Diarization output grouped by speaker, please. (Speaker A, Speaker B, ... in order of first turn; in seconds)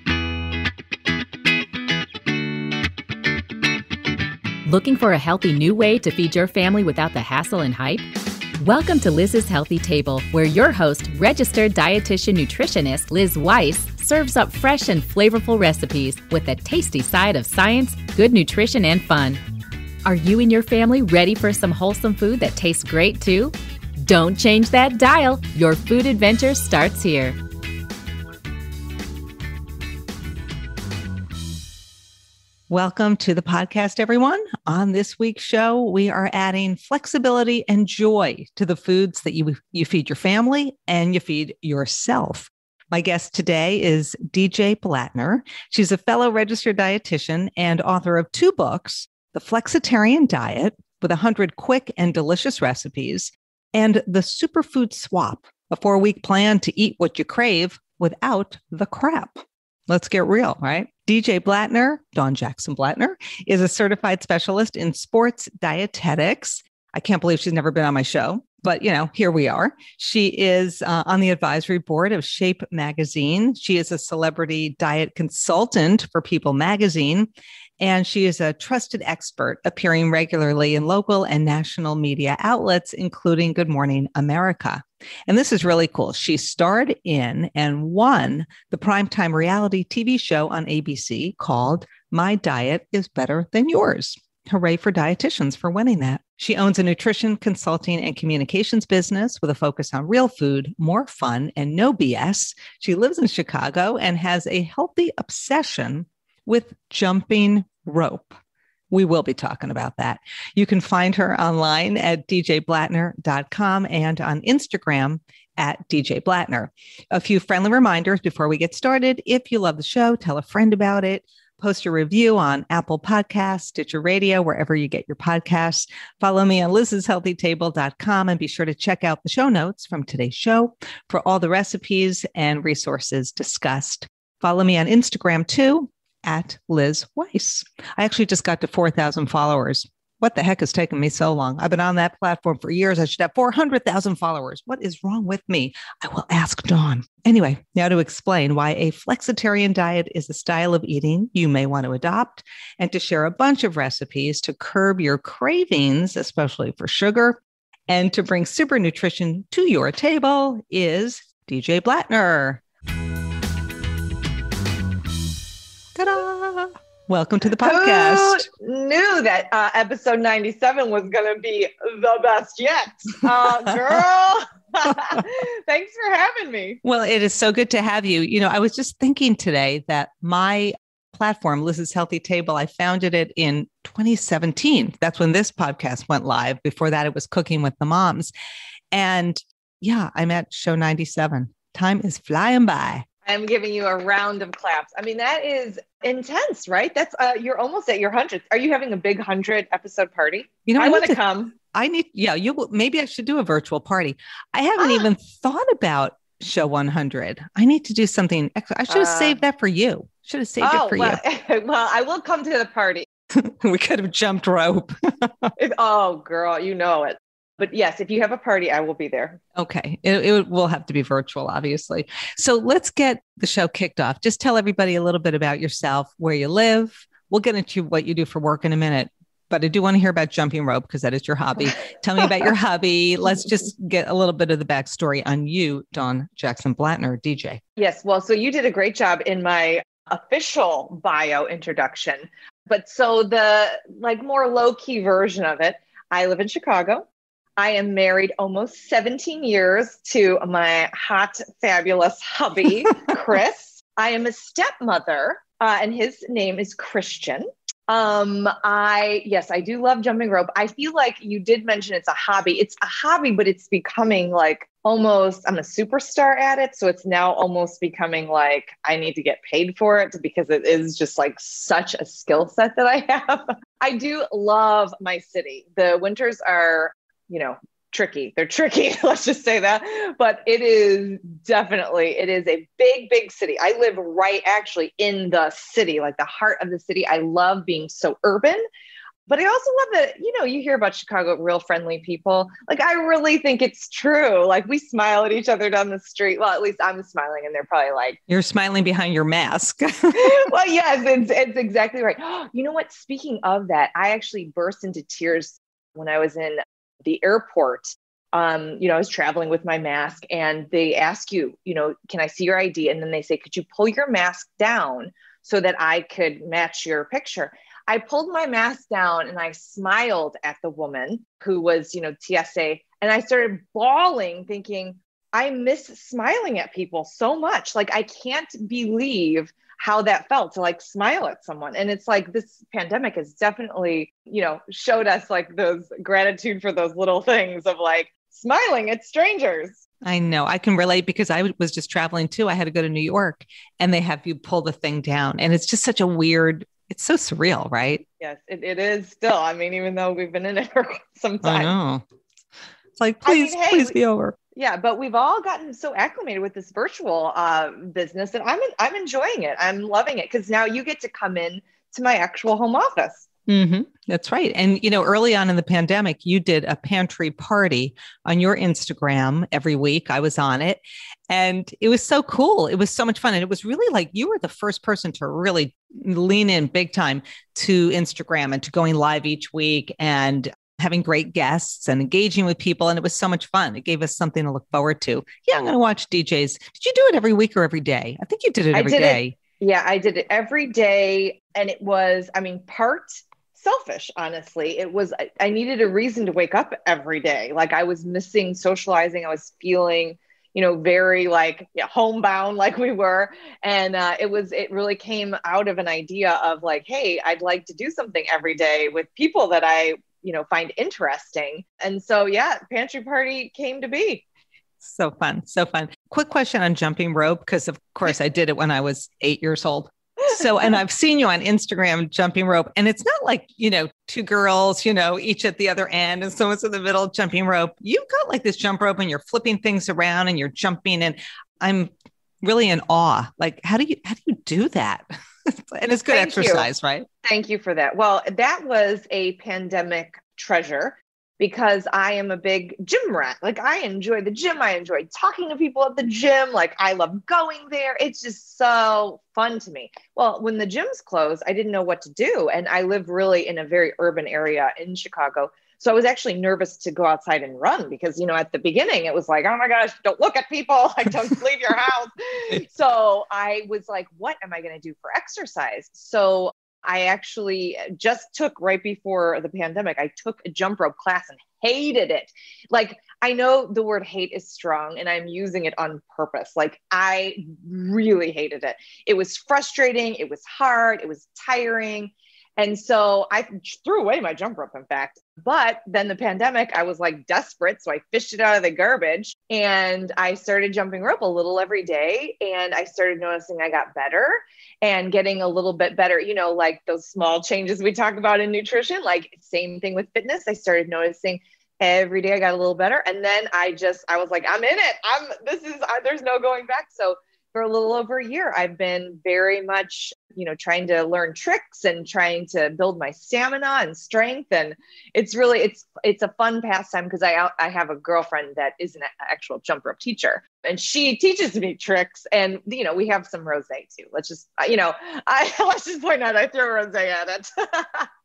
Speaker A: 4.7-8.1, 8.6-19.4, 20.0-23.5, 24.0-27.4
Speaker B: 32.7-108.4, 108.9-162.6, 165.9-168.5, 176.8-188.3, 188.9-193.0, 200.7-211.2, 213.3-215.5, 219.6-237.6, 298.3-300.4, 340.0-348.0, 351.4-352.0, 353.0-354.4, 363.5-389.4, 414.8-437.1
Speaker C: 167.6-176.8, 193.2-201.5, 204.8-205.1, 208.9-209.4, 210.6-213.1, 215.6-219.4, 237.8-247.1, 247.6-288.6, 289.3-298.2, 300.1-339.8, 348.2-351.7, 353.2-353.9, 354.5-363.3, 388.7-414.2, 436.1-436.7, 437.2-528.1